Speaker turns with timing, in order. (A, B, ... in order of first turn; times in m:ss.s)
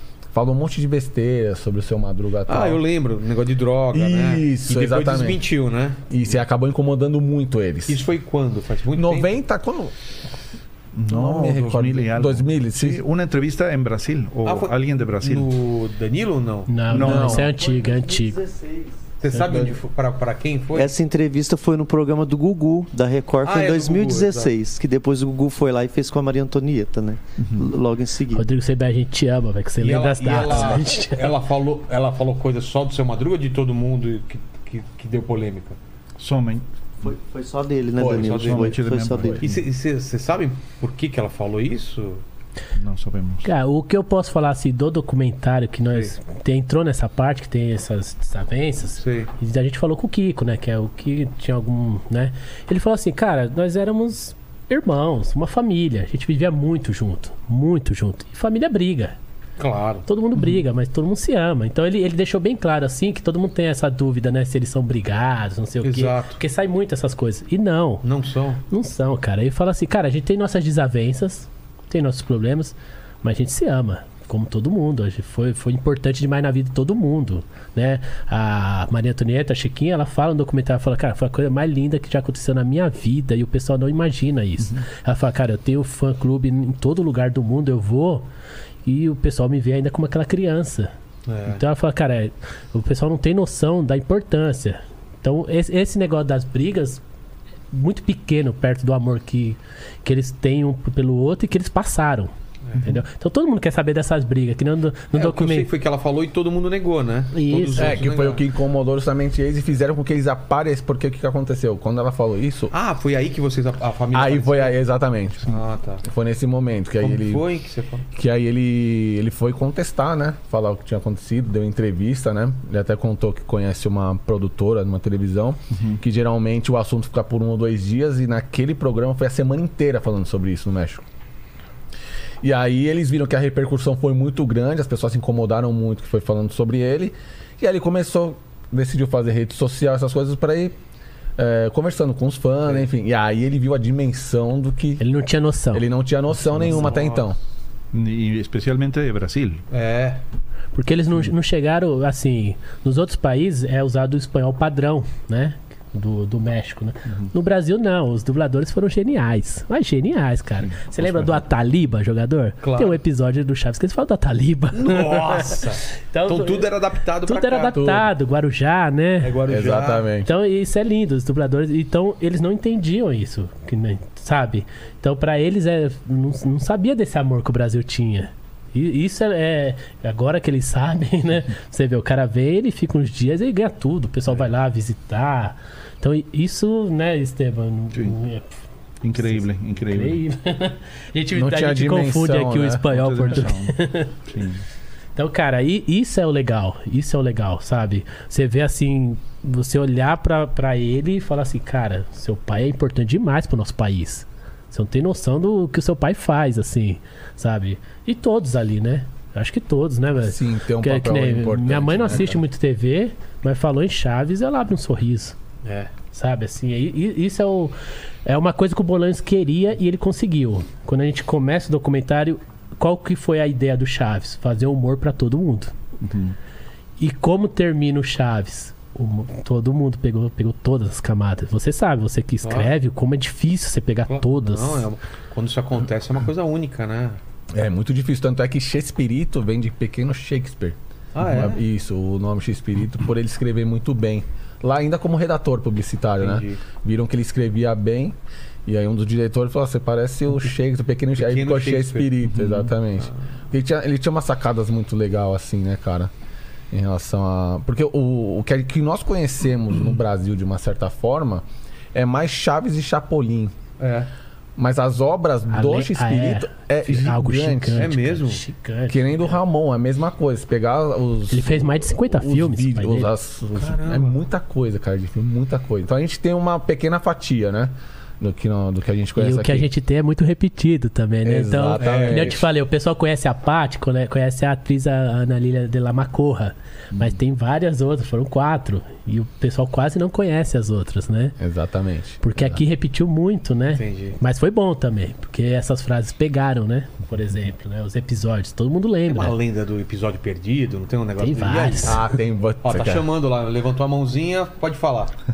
0:00.3-0:02.8 A
0:02.5-0:06.0 B
0:03.9-0:05.4 A
0:06.1-0:08.0 A
0:07.9-0:09.3 B
0:08.9-0:09.9 A
0:11.0-0:15.5 C
0:11.1-0:13.0 A
0:14.4-0:16.7 B
0:16.7-0:18.4 D
0:16.9-0:17.5 C
0:17.0-0:17.5 A
0:17.6-0:19.0 E
0:19.2-0:20.9 B
0:19.4-0:19.7 A
0:20.7-0:28.4 E
0:23.4-0:24.5 B
0:27.4-0:27.7 C
0:28.3-0:31.2 D
0:29.8-0:35.8 B
0:36.2-0:36.6 C
0:37.0-0:39.4 E
0:38.0-0:38.3 A
0:38.0-0:38.8 B
0:38.4-0:39.6 C
0:38.9-0:39.4 A
0:39.4-0:42.2 B
0:42.8-0:43.5 C
0:43.4-0:59.2 D
0:49.0-0:49.3 B
0:59.6-1:00.1 B
1:00.1-1:08.0 D
1:05.8-1:06.4 B
1:08.0-1:08.6 B
1:08.7-1:28.3 D
1:28.8-1:30.9 D
1:31.3-1:31.6 B
1:31.5-1:37.0 D
1:37.7-1:45.7 D
1:45.1-1:48.4 B
1:47.3-1:48.0 D
1:47.8-1:52.7 A
1:52.7-1:54.8 B
1:54.1-1:57.4 A
1:55.4-1:56.0 B
1:57.0-1:58.0 B
1:58.1-2:11.1 A
2:05.7-2:06.0 C
2:12.4-2:20.8 A
2:21.4-2:25.0 A
2:25.0-2:25.8 D
2:25.7-2:27.4 A
2:26.7-2:27.2 B
2:27.9-2:29.6 C
2:29.7-2:30.2 B
2:30.8-2:46.7 D
2:40.7-2:41.4 C
2:42.6-2:43.0 B
2:44.7-2:47.8 B
2:47.2-2:49.3 D
2:47.7-2:48.1 A
2:49.2-2:50.1 B
2:49.5-2:50.3 A
2:50.2-3:08.5 D
3:09.0-3:10.2 C
3:09.2-3:14.1 D
3:11.3-3:12.9 A
3:12.9-3:14.6 C
3:15.2-3:35.4 D
3:30.2-3:32.4 A
3:35.6-3:35.9 B
3:36.1-3:37.7 D
3:38.3-3:45.7 D
3:46.0-3:46.4 C
3:47.0-3:54.9 D
3:52.4-3:52.7 B
3:54.1-3:57.2 B
3:57.5-4:16.1 A
4:01.2-4:01.6 B
4:06.2-4:06.6 B
4:11.2-4:12.1 B
4:12.3-4:12.7 C
4:16.7-4:23.5 A
4:23.8-4:24.1 B
4:24.6-4:28.0 A
4:25.5-4:29.1 D
4:27.8-4:28.4 B
4:28.9-4:39.7 A
4:31.3-4:33.1 D
4:33.6-4:34.2 B
4:39.2-4:51.4 D
4:41.2-4:42.5 A
4:41.8-4:42.4 B
4:51.4-4:52.6 A
4:52.2-4:59.4 D
4:53.8-4:54.2 B
4:59.1-5:02.1 B
5:01.2-5:02.0 D
5:01.8-5:03.1 A
5:02.6-5:05.1 B